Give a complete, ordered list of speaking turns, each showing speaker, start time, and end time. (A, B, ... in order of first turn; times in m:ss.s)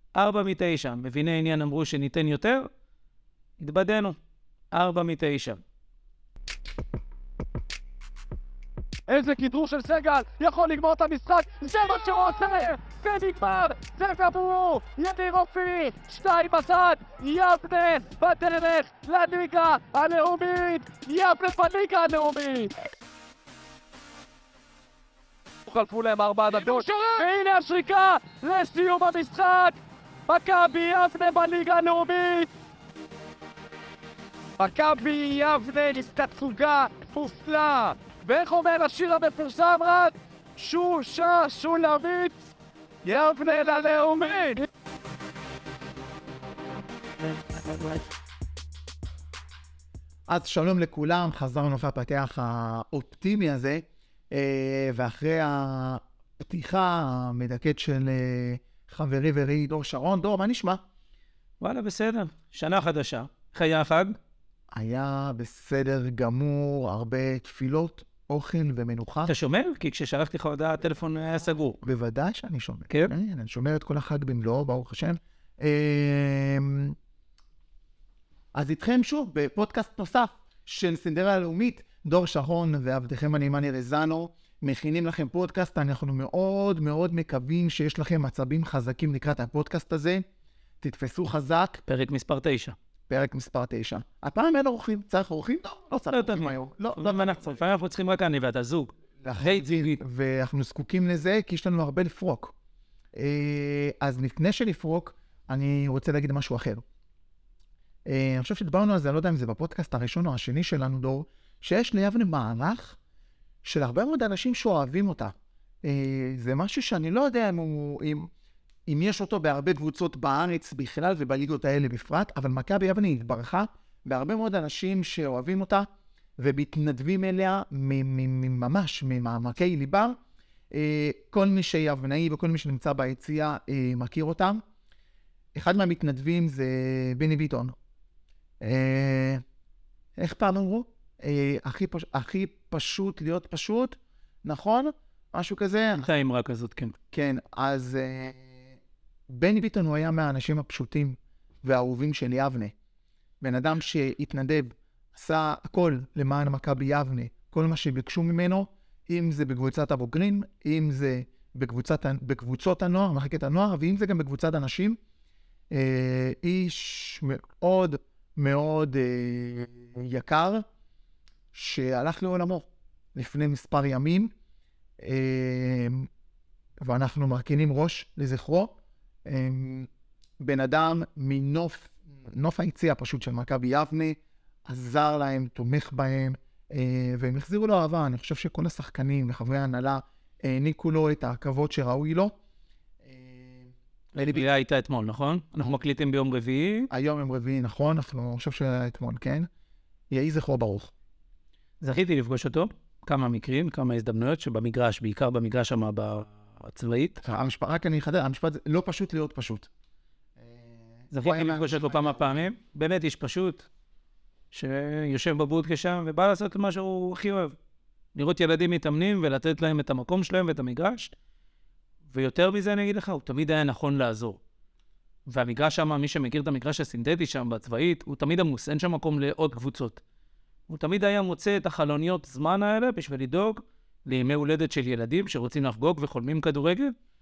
0:00.2-0:02.7 A
0:03.6-0:04.2 A
0:04.7-0:05.6 A
0:09.1-0:22.7 B
0:25.7-0:29.8 B
0:30.3-0:32.5 B
0:34.6-0:42.3 B
0:43.0-0:44.7 B
0:50.3-1:00.8 C
1:01.6-1:04.2 A
1:04.7-1:09.3 C
1:09.3-1:11.8 A
1:11.8-1:17.0 C
1:18.5-1:30.2 C
1:30.8-1:31.8 C
1:31.9-1:32.8 A
1:33.1-1:37.6 C
1:36.1-1:40.0 A
1:39.2-1:42.5 C
1:43.2-1:46.8 C
1:48.1-1:53.0 C
1:53.6-1:58.3 C
1:58.9-2:05.9 C
2:06.4-2:10.2 C
2:10.7-2:14.6 C
2:15.6-2:17.8 C
2:18.6-2:19.4 C
2:20.2-2:26.1 C
2:26.0-2:27.0 A
2:27.1-2:28.5 C
2:29.3-2:32.7 C
2:33.4-2:45.0 C
2:45.7-2:50.6 C
2:51.5-2:54.3 C
2:55.0-2:56.1 C
2:56.8-2:59.9 C
3:00.4-3:12.3 C
3:13.0-3:14.4 C
3:14.2-3:16.9 A
3:16.9-3:19.5 C
3:20.1-3:20.9 C
3:21.8-3:27.2 A
3:27.2-3:29.7 C
3:30.4-3:32.5 C
3:31.1-3:33.7 A
3:34.5-3:37.6 A
3:38.2-3:41.2 A
3:42.1-3:44.4 A
3:45.3-3:50.0 A
3:50.7-3:56.9 A